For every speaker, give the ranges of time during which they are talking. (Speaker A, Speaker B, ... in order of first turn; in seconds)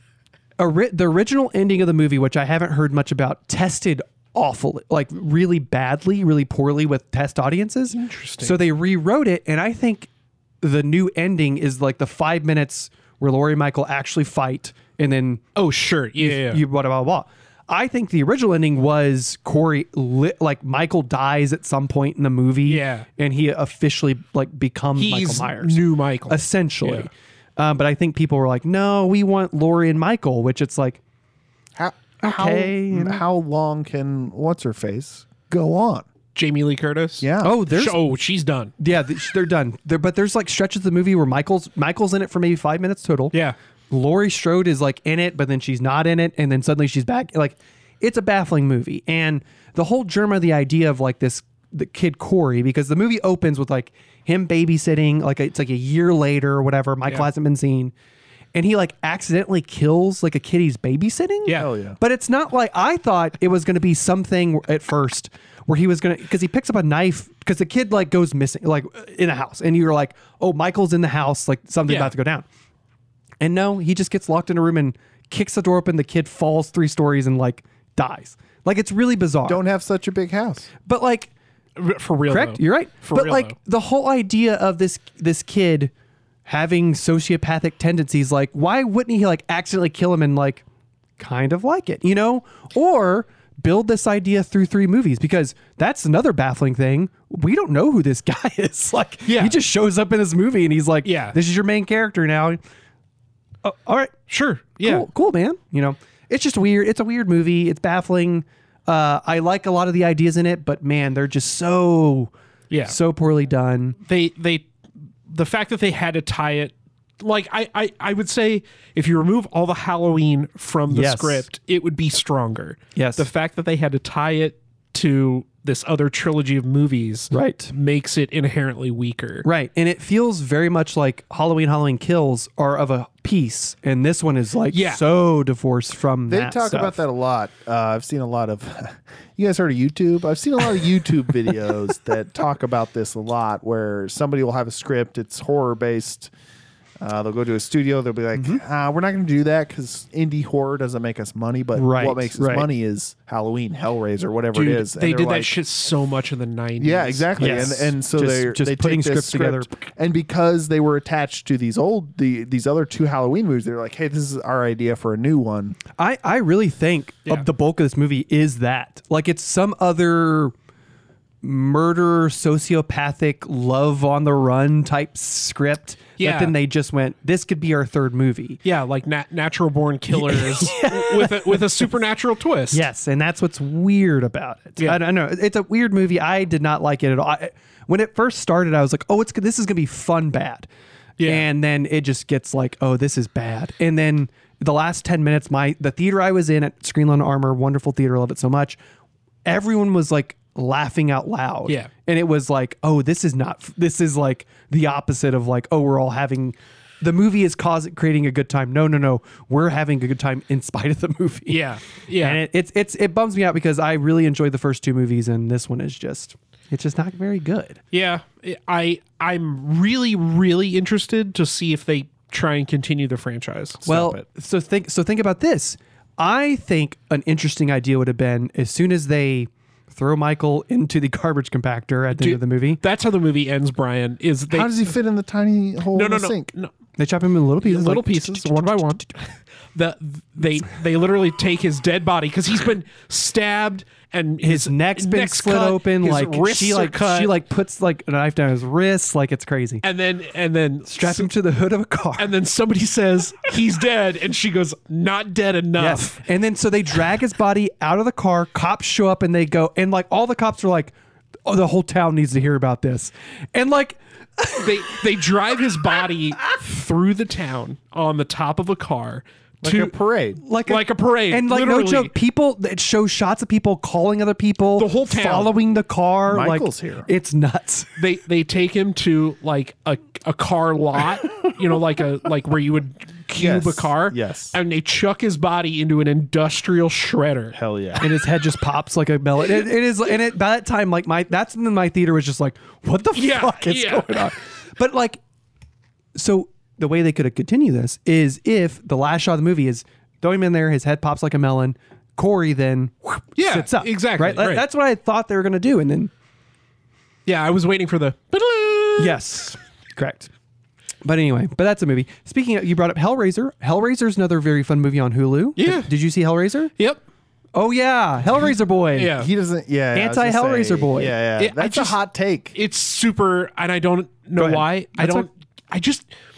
Speaker A: 0.6-10.1, 10.6-15.4, 16.2-31.0, 32.2-33.2, 37.4-38.0, 38.8-43.3, 43.9-57.9, 58.5-72.5, 73.4-79.6, 80.8-81.3, 82.3-85.9, 86.5-90.6, 91.2-102.6, 103.6-104.2, 104.8-112.3, 112.8-114.0, 120.9-121.4, 122.9-123.2, 127.3-127.7, 129.4-137.0, 148.3-148.6, 151.8-152.7, 157.4-159.7, 166.0-170.5, 171.4-178.6, 180.1-181.9, 182.7-190.7, 191.2-198.8, 199.4-211.7, 212.2-217.8, 223.8-232.8, 237.0-238.8, 244.4-249.8, 250.9-252.3, 255.8-260.9, 261.4-264.9, 270.4-277.9, 288.0-295.2, 296.1-306.1, 309.0-310.3, 311.0-316.7, 317.5-319.1, 319.9-321.2, 324.4-325.3
Speaker B: 7.9-8.6, 15.6-16.6, 22.7-23.1, 25.0-27.1, 36.3-38.7, 71.9-72.1, 81.8-83.5, 99.3-99.6, 101.0-101.3, 104.3-105.1, 112.7-113.0, 114.1-114.7, 115.3-129.4, 134.7-135.0, 154.5-157.7, 176.2-176.5, 178.6-182.8, 191.2-191.4, 211.5-212.4, 217.9-223.8, 232.1-234.8, 235.9-236.7, 237.6-247.3, 249.8-251.3, 252.2-256.2, 264.6-269.9, 270.6-272.1, 274.8-275.5, 278.0-287.6, 293.1-294.3, 303.4-304.6, 307.2-309.2, 315.6-315.9, 318.9-319.3, 321.4-322.0, 322.5-326.1
Speaker C: 31.8-36.1, 37.2-37.6, 61.5-62.0, 79.5-80.7, 136.3-146.3, 147.0-155.5, 156.8-165.8, 223.8-224.2, 234.5-236.5, 269.6-270.4, 276.3-277.1, 283.3-284.6, 287.5-288.1, 319.1-322.5